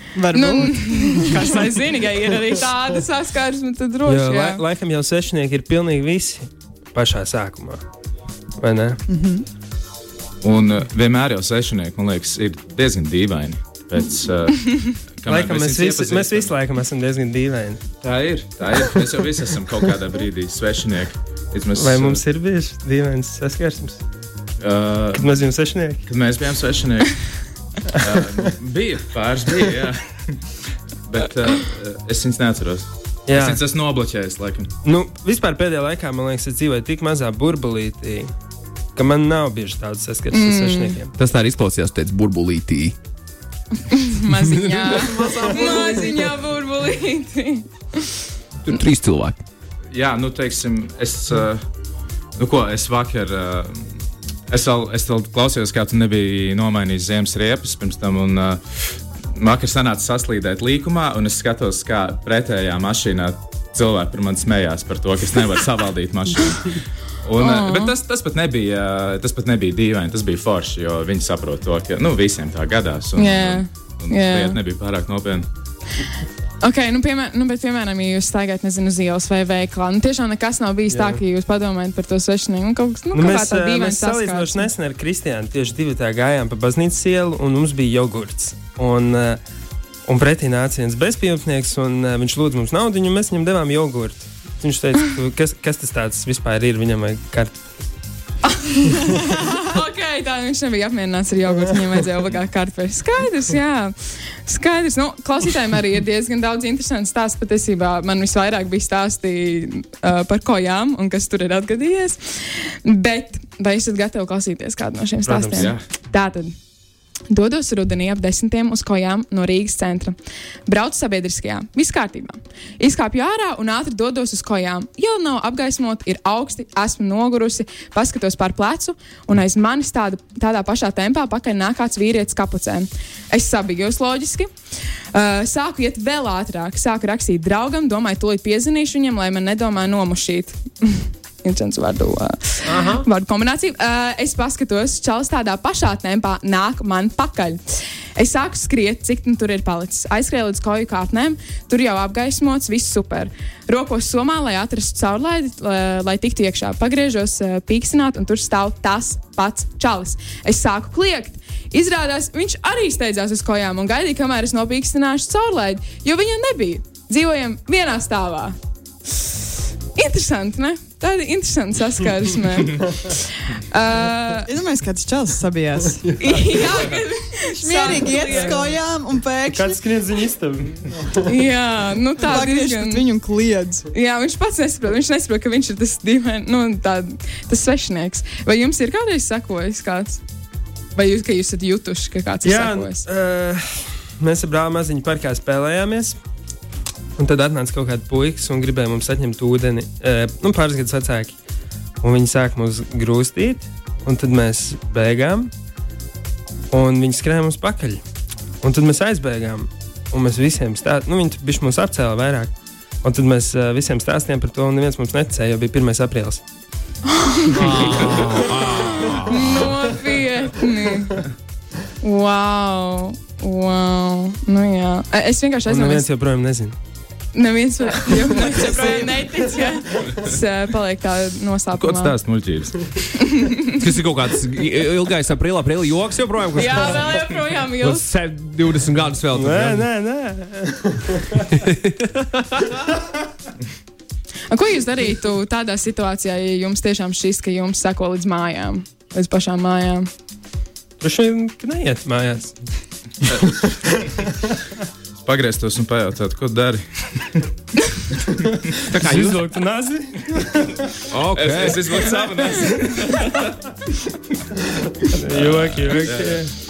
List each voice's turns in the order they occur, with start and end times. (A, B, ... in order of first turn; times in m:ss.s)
0:00.2-0:01.6 A
0:00.3-0:04.6 B
0:04.0-0:07.8 C
0:08.6-0:09.0 C
0:09.1-0:09.4 A
0:10.4-0:16.6 D
0:15.2-0:17.8 C
0:18.0-0:22.2 D
0:21.8-0:24.0 C
0:24.6-0:25.3 D
0:25.1-0:26.0 C
0:26.1-0:27.1 D
0:27.9-0:30.3 D
0:31.1-0:34.7 D
0:33.3-0:33.6 C
0:34.8-0:38.3 C
0:39.0-0:41.1 C
0:40.3-0:41.0 B
0:41.2-0:42.9 E
0:43.9-0:48.1 B
0:44.4-0:46.2 E
0:48.6-0:49.4 E
0:49.9-0:51.6 D
0:52.4-0:53.8 D
0:54.5-0:58.6 D
0:59.4-1:15.4 D
1:07.4-1:08.0 B
1:13.2-1:14.6 B
1:16.6-1:24.7 B
1:20.9-1:21.2 C
1:23.1-1:29.4 C
1:30.0-1:37.6 C
1:38.5-1:56.5 B
1:55.2-1:55.7 C
1:55.5-1:55.8 D
1:57.3-2:00.1 B
2:00.6-2:14.5 B
2:15.1-2:27.6 B
2:22.6-2:23.0 E
2:28.2-2:48.5 B
2:49.9-2:54.5 B
2:54.4-2:56.1 A
2:56.2-2:58.8 B
2:57.6-2:59.8 A
2:59.5-3:01.3 C
3:01.2-3:03.1 B
3:02.2-3:03.9 A
3:03.9-3:10.2 B
3:10.9-3:13.0 B
3:12.4-3:16.2 C
3:17.2-3:21.4 C
3:22.0-3:25.5 C
3:26.7-3:28.0 C
3:28.6-3:36.4 C
3:37.1-3:38.2 B
3:37.5-3:39.7 E
3:38.7-3:41.2 B
3:42.0-3:46.0 B
3:45.7-3:46.7 C
3:47.3-3:52.2 B
3:51.7-3:52.8 D
3:53.2-3:53.8 B
3:53.8-3:57.1 E
3:56.5-3:58.0 B
3:57.8-3:59.9 E
3:59.3-4:01.4 C
4:01.5-4:02.8 E
4:04.5-4:10.1 B
4:11.0-4:12.6 C
4:13.3-4:14.5 C
4:15.2-4:17.5 D
4:18.8-4:19.4 E
4:18.9-4:20.9 C
4:21.1-4:22.0 E
4:21.3-4:23.5 D
4:25.0-4:26.5 C
4:25.3-4:26.4 D